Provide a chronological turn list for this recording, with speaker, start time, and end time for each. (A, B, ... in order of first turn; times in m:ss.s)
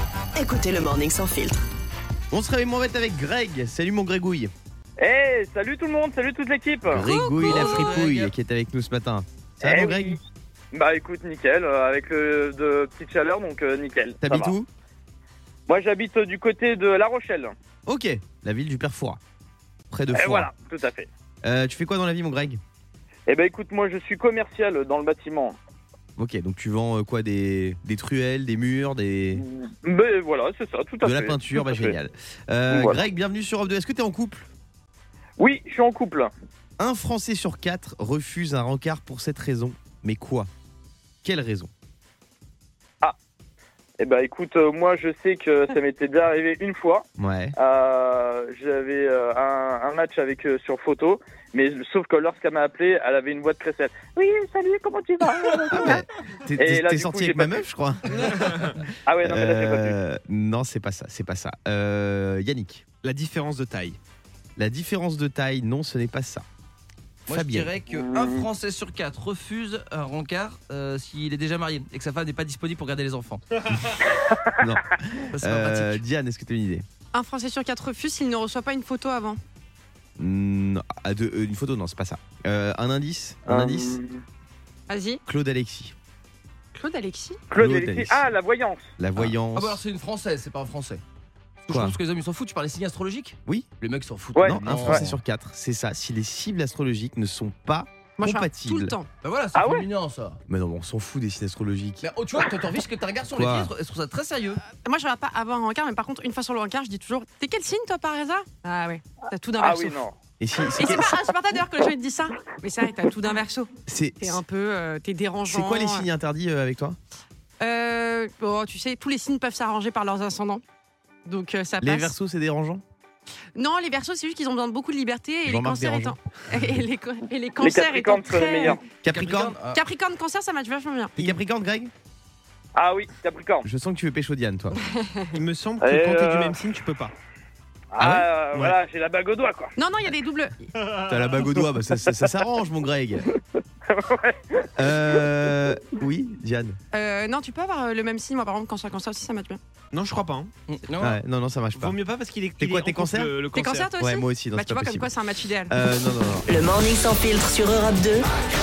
0:00.3-0:01.6 A
0:02.3-0:04.5 B
0:05.0-0:07.1 C
0:06.9-0:10.2 B
0:07.0-0:08.0 D
0:07.4-0:08.3 E
0:09.6-0:10.2 C
0:10.7-0:14.5 C
0:14.2-0:14.7 B
0:15.7-0:17.5 C
0:17.8-0:19.2 B
0:19.9-0:20.5 B
0:20.1-0:21.1 C
0:21.4-0:22.6 B
0:23.3-0:25.5 C
0:26.2-0:29.4 B
0:29.3-0:32.0 C
0:31.0-0:34.5 B
0:32.7-0:33.0 C
0:35.4-0:36.3 C
0:36.8-0:40.5 B
0:41.2-0:41.7 B
0:44.0-0:47.0 C
0:47.2-0:47.5 B
0:47.6-0:56.0 C
0:55.7-1:02.8 B
0:56.6-0:57.6 C
0:59.0-1:00.0 C
1:03.0-1:04.0 F
1:04.6-1:06.4 B
1:07.3-1:07.7 B
1:07.3-1:13.4 E
1:07.9-1:08.4 C
1:14.1-1:14.5 C
1:14.6-1:16.8 B
1:15.3-1:16.0 E
1:17.1-1:19.4 D
1:20.2-1:24.0 B
1:23.5-1:24.2 C
1:24.9-1:25.2 D
1:25.2-1:25.9 B
1:26.7-1:27.4 D
1:27.5-1:28.9 C
1:27.5-1:28.2 B
1:29.0-1:29.8 B
1:29.2-1:31.0 E
1:31.6-1:35.1 E
1:31.7-1:32.0 B
1:34.3-1:35.1 C
1:34.4-1:39.0 B
1:38.2-1:39.1 D
1:39.2-1:40.4 E
1:39.5-1:39.9 C
1:40.5-1:42.1 B
1:42.0-1:44.6 E
1:43.3-1:43.7 B
1:44.7-1:50.0 D
1:49.6-1:50.2 C
1:50.4-1:51.2 B
1:50.7-1:56.1 D
1:53.9-1:54.4 B
1:55.5-1:57.0 B
1:57.6-2:00.6 D
2:01.2-2:02.1 D
2:01.8-2:02.8 B
2:03.5-2:08.8 D
2:05.4-2:06.2 B
2:07.6-2:08.8 C
2:09.0-2:09.6 B
2:09.0-2:09.8 E
2:09.7-2:11.1 D
2:11.2-2:11.9 B
2:12.7-2:13.7 C
2:13.6-2:14.8 B
2:15.0-2:15.3 D
2:15.3-2:17.1 F
2:15.8-2:16.6 C
2:17.9-2:19.7 C
2:18.0-2:18.3 B
2:19.8-2:20.6 D
2:21.0-2:23.2 B
2:23.3-2:25.2 C
2:24.8-2:26.8 B
2:26.9-2:29.6 D
2:29.9-2:30.5 F
2:30.7-2:31.2 E
2:31.0-2:32.0 B
2:31.7-2:33.9 F
2:32.6-2:33.4 B
2:33.5-2:35.8 D
2:34.0-2:35.1 B
2:35.7-2:36.5 B
2:36.5-2:38.2 A